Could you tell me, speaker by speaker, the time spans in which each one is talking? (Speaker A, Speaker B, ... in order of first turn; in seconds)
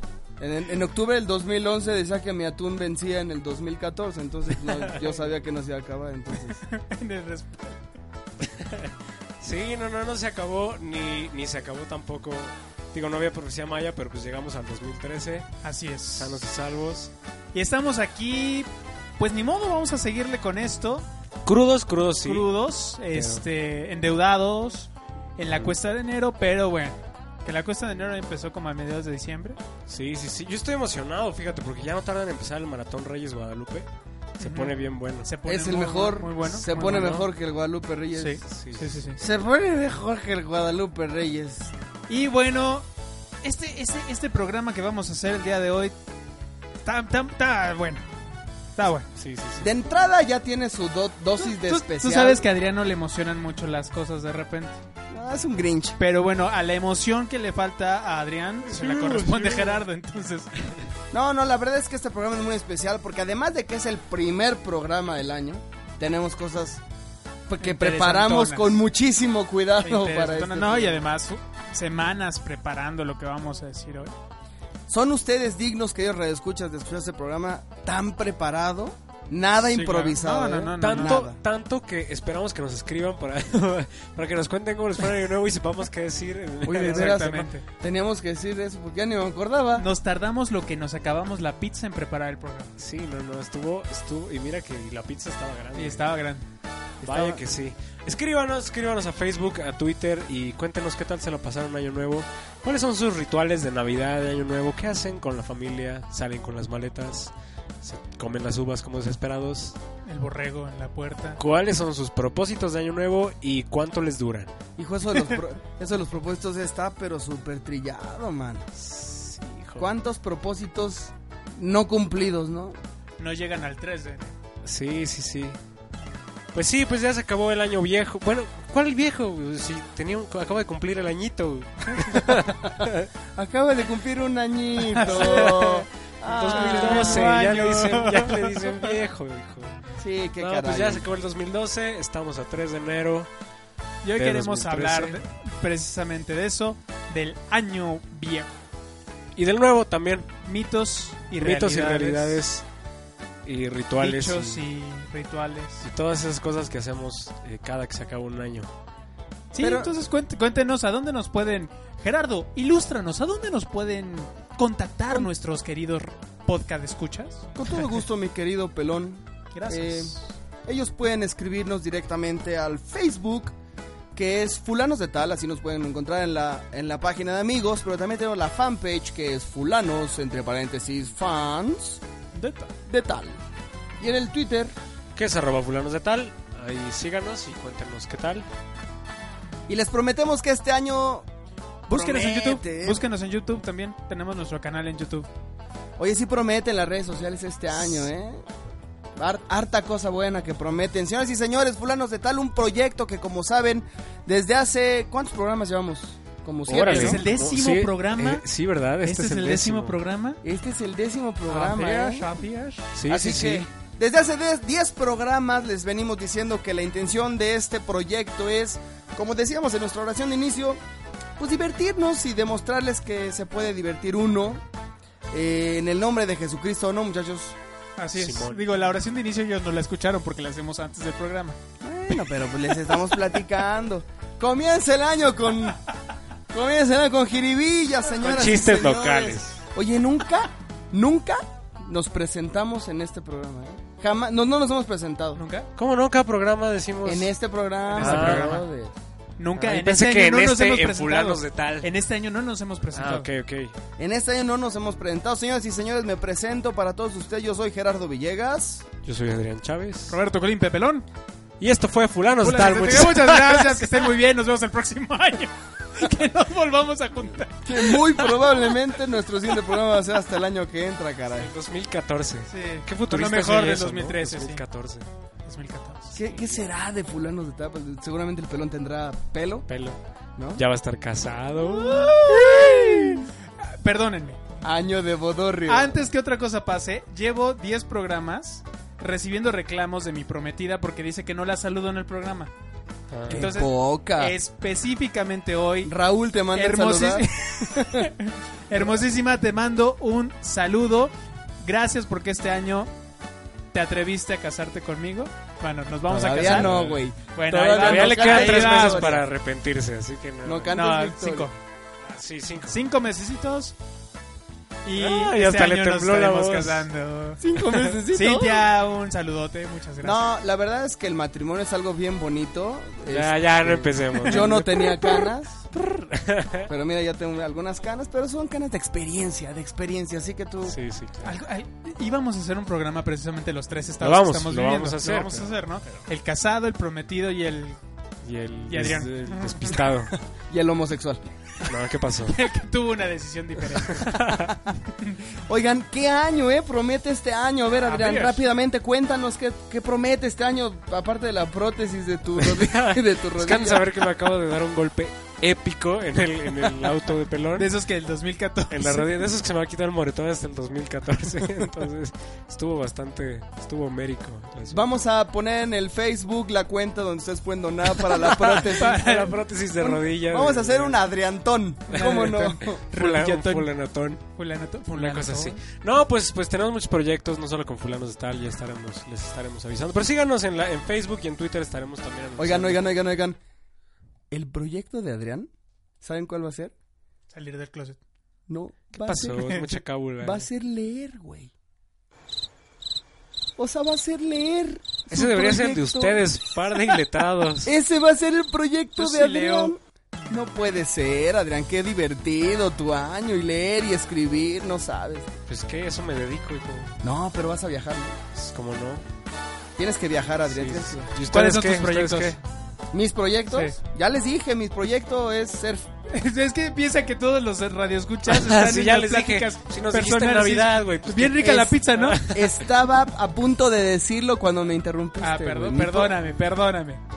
Speaker A: 0.4-6.6, 35.5-38.4, 39.2-41.7, 49.6-52.5, 55.1-56.0, 61.1-66.8, 67.5-71.0, 74.9-81.4, 86.6-89.8, 97.0-97.4, 114.8-118.7, 119.8-122.8, 132.3-137.4, 140.0-141.1, 159.6-159.9, 167.6-173.6, 174.1-182.0, 182.9-183.4, 184.0-184.7, 189.7-191.3, 191.9-193.1, 196.0-198.5, 199.2-207.2, 210.4-212.3, 213.1-220.8, 221.4-224.7, 225.3-227.6, 231.8-235.8, 236.5-245.4, 247.0-248.9, 254.0-258.9, 267.6-271.5, 276.1-279.7, 280.4-280.6, 281.6-283.3, 284.6-286.0, 293.3-294.4, 295.9-298.1, 306.1-309.2, 310.4-311.5, 317.4-318.7, 320.0-325.7, 326.7-330.8, 340.4-341.2, 345.5-353.9, 364.7-369.0, 369.8-372.8, 382.4-383.4, 384.3-385.5, 386.0-386.7, 388.5-389.7, 390.2-391.5, 393.6-396.2, 397.6-405.3, 407.0-408.2, 409.8-411.1, 412.9-415.9, 422.3-426.2
Speaker B: 4.7-5.1, 8.4-15.5, 16.2-17.1, 21.4-22.5, 23.1-23.5, 29.9-33.9, 34.4-35.3, 36.6-37.3, 38.5-39.1, 49.2-49.7, 58.7-59.8, 80.8-87.3, 92.8-96.1, 97.0-109.8, 111.4-114.5, 118.8-119.9, 124.6-125.6, 126.5-133.1, 135.1-139.8, 140.4-143.3, 144.2-145.2, 149.4-150.3, 151.4-152.7, 153.4-154.7, 155.8-158.7, 185.2-188.5, 206.7-210.0, 213.0-213.7, 228.2-228.6, 238.2-239.6, 245.8-247.3, 248.0-248.7, 249.6-251.9, 252.9-253.8, 259.0-260.2, 261.6-264.1, 271.4-275.1, 276.2-276.6, 279.7-280.0, 280.5-283.2, 293.1-293.5, 306.4-310.8, 312.0-312.8, 315.0-316.9, 323.1-326.7, 330.7-331.4, 334.0-336.0, 338.2-340.1, 341.6-342.4, 344.0-344.5, 352.4-357.7, 358.7-364.9, 368.2-371.0, 371.9-374.3, 374.9-382.9, 388.9-390.5, 395.1-397.7, 405.5-407.0, 408.3-409.0, 410.5-412.4, 418.3-422.6
Speaker C: 6.6-7.8, 15.6-16.4, 17.5-21.1, 22.2-29.6, 34.4-37.1, 38.2-39.2, 42.1-42.9, 43.4-46.0, 46.9-48.1, 48.8-49.1, 51.4-54.8, 56.0-60.5, 67.6-68.8, 69.8-74.2, 79.7-81.2, 86.7-87.7, 89.8-92.7, 95.8-96.4, 110.1-111.4, 123.2-124.3, 134.9-135.5, 136.4-138.8, 144.0-148.6, 150.5-152.4, 154.0-155.8, 159.5-167.9, 169.5-170.3, 182.3-182.7, 191.9-195.3, 206.7-208.4, 209.0-210.4, 211.5-212.9, 228.0-231.6, 245.3-245.7, 247.9-248.6, 249.4-253.3, 260.1-261.1, 262.4-268.0, 272.5-274.6, 275.5-276.2, 283.6-284.4, 285.7-292.5, 293.3-295.9, 296.5-301.1, 301.6-302.9, 303.7-306.7, 307.3-309.2, 310.7-311.6, 312.7-313.8, 314.8-317.4, 318.1-320.2, 331.2-337.8, 338.7-339.8, 342.3-344.2, 347.8-348.4, 357.6-359.1, 368.8-369.4, 371.9-375.6, 387.3-388.0, 399.0-399.7, 411.3-412.4, 413.5-413.8, 416.1-422.2, 425.2-427.0